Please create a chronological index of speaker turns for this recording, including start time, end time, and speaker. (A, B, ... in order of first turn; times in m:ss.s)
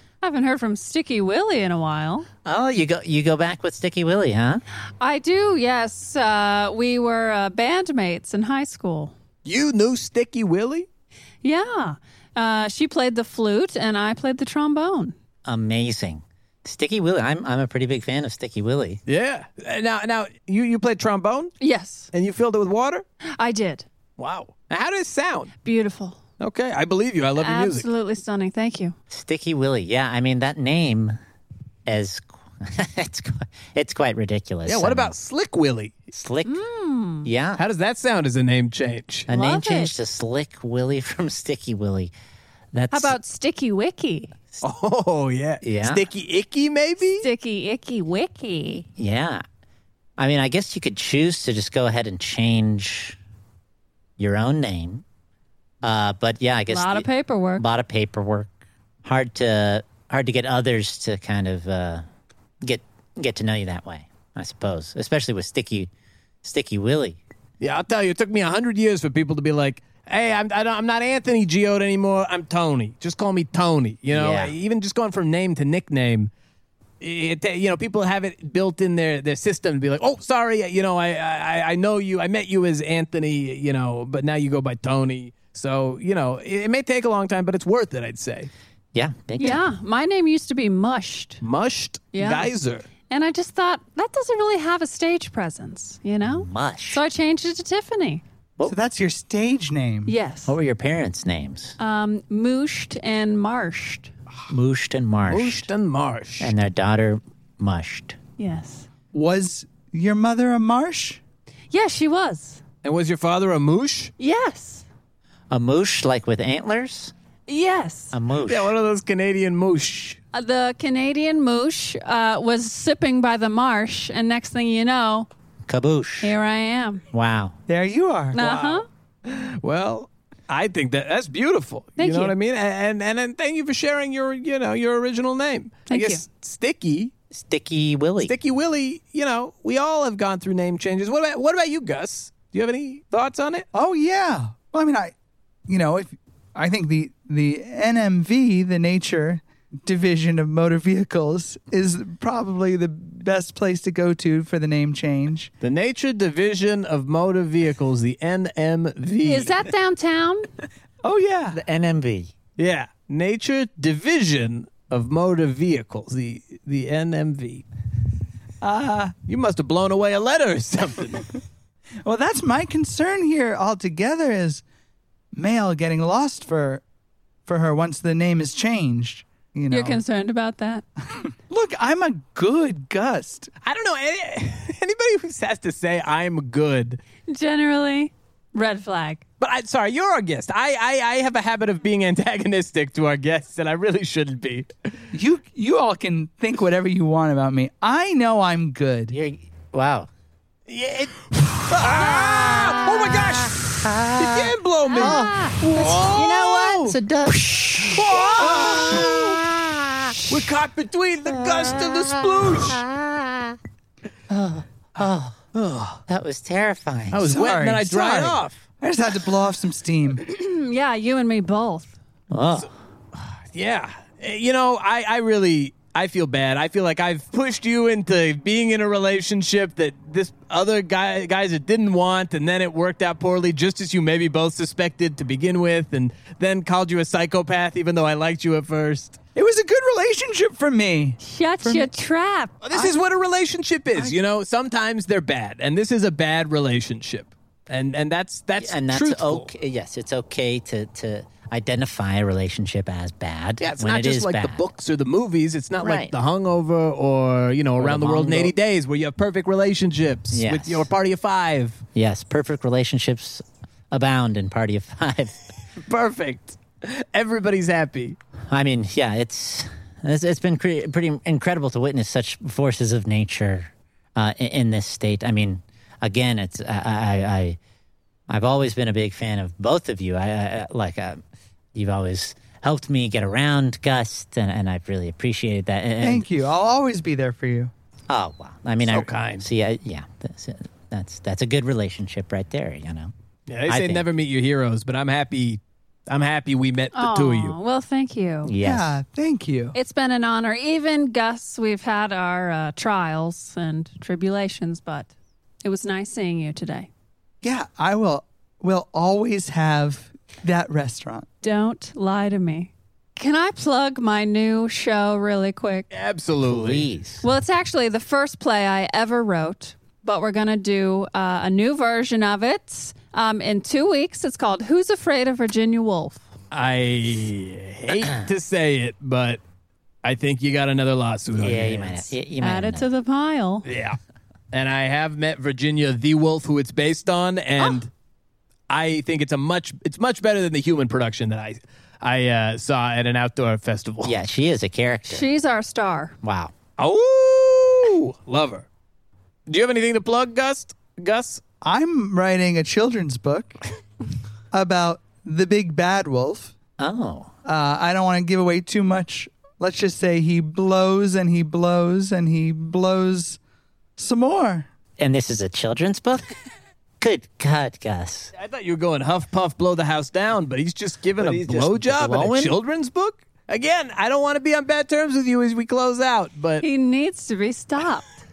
0:00.2-0:02.3 A
0:02.4-0:04.6 B
0:05.0-0:09.1 A
0:09.4-0:10.9 C
0:11.4-0:15.1 A
0:15.4-0:19.0 B
0:19.0-0:21.5 C
0:21.6-0:22.1 A
0:22.1-0:23.0 C
0:23.4-0:23.8 A
0:24.2-0:25.5 C
0:25.6-0:26.2 A
0:26.4-0:27.9 C
0:27.4-0:28.9 A
0:29.1-0:31.2 B
0:31.8-0:35.1 B
0:34.6-0:36.0 C
0:36.1-0:36.6 B
0:36.4-0:37.3 A
0:37.2-0:37.6 B
0:37.6-0:39.3 C
0:39.3-0:42.1 B
0:39.3-0:39.9 A
0:42.7-0:43.2 B
0:42.9-0:44.3 A
0:44.6-0:47.2 C
0:45.6-0:46.0 B
0:47.2-0:48.8 A
0:49.0-0:49.4 B
0:50.2-0:53.2 B
0:54.2-0:55.0 B
0:55.8-0:58.5 B
0:56.7-0:57.6 A
0:59.0-1:02.0 B
1:02.6-1:05.9 B
1:06.4-1:07.2 B
1:07.6-1:16.3 C
1:14.1-1:14.5 B
1:17.0-1:28.5 C
1:28.9-1:29.6 B
1:29.4-1:31.4 A
1:31.4-1:32.9 C
1:32.1-1:32.5 A
1:33.1-1:38.2 A
1:36.2-1:37.0 B
1:38.6-1:40.1 D
1:40.1-1:40.5 A
1:40.5-1:41.8 B
1:41.8-1:44.1 A
1:44.5-1:45.7 B
1:45.3-1:46.5 C
1:46.4-1:48.2 B
1:48.4-1:48.9 A
1:49.1-1:51.2 D
1:51.7-1:52.6 A
1:52.8-1:54.1 C
1:54.2-1:54.8 A
1:55.5-1:57.1 B
1:57.5-1:58.1 A
1:58.1-1:58.7 B
1:58.5-2:00.2 C
2:00.3-2:05.3 A
2:05.7-2:06.3 B
2:06.2-2:07.0 A
2:07.1-2:07.6 B
2:07.7-2:08.4 D
2:08.3-2:08.8 A
2:08.3-2:17.1 C
2:12.0-2:12.3 A
2:15.9-2:16.2 A
2:17.3-2:18.3 B
2:18.2-2:23.7 C
2:23.7-2:25.1 D
2:25.7-2:35.5 D
2:35.6-2:39.7 C
2:39.2-2:40.5 A
2:41.0-2:41.6 D
2:41.5-2:42.3 B
2:42.6-2:47.6 C
2:48.6-2:49.1 D
2:49.3-2:51.3 C
2:52.0-2:54.6 D
2:55.3-2:56.8 D
2:57.5-3:00.0 D
2:59.7-3:00.8 A
3:01.2-3:03.5 D
3:03.6-3:07.0 C
3:07.3-3:09.2 A
3:09.4-3:14.7 C
3:15.1-3:19.1 D
3:19.1-3:20.1 B
3:20.7-3:27.0 C
3:21.8-3:30.1 B
3:25.0-3:25.6 A
3:27.8-3:29.4 C
3:30.3-3:32.8 C
3:31.3-3:33.6 B
3:34.3-3:35.4 B
3:35.5-3:36.0 C
3:36.1-3:37.3 B
3:37.1-3:38.6 C
3:37.3-3:40.2 D
3:40.2-3:41.9 A
3:42.3-3:42.7 B
3:43.2-3:59.2 C
3:59.4-4:01.9 D
4:01.2-4:02.5 A
4:02.6-4:09.5 C
4:02.7-4:03.0 D
4:08.6-4:14.6 B
4:13.6-4:21.8 C
4:15.8-4:16.1 B
4:17.8-4:18.5 B
4:20.3-4:20.9 B
4:21.9-4:25.4 B
4:25.8-4:28.2 C
4:28.5-4:37.6 B
4:38.3-4:41.2 B
4:41.7-4:46.2 B
4:46.0-4:47.7 D
4:48.1-4:53.1 B
4:48.9-4:49.4 C
4:53.5-4:57.6 C
4:53.7-4:54.0 B
4:56.9-4:58.5 A
4:58.4-4:58.9 B
4:58.6-4:59.7 D
4:59.7-5:05.1 A
5:05.6-5:06.9 A
5:07.4-5:11.3 D
5:11.4-5:15.9 A
5:15.9-5:16.8 C
5:16.4-5:17.2 B
5:17.2-5:26.2 A
5:26.5-5:29.4 C
5:30.0-5:32.1 C
5:31.4-5:32.9 B
5:32.4-5:33.7 A
5:33.6-5:34.0 C
5:34.5-5:37.9 C
5:38.7-5:44.1 C
5:44.0-5:45.3 B
5:45.1-5:46.2 A
5:46.2-5:46.5 B
5:46.8-5:48.6 C
5:49.5-5:51.4 C
5:51.6-5:53.6 D
5:54.5-5:56.5 D
5:56.8-5:57.3 B
5:57.4-6:03.4 D
6:04.0-6:04.7 D
6:05.0-6:06.3 B
6:07.0-6:08.3 B
6:08.3-6:16.6 C
6:11.2-6:12.5 B
6:16.6-6:18.1 A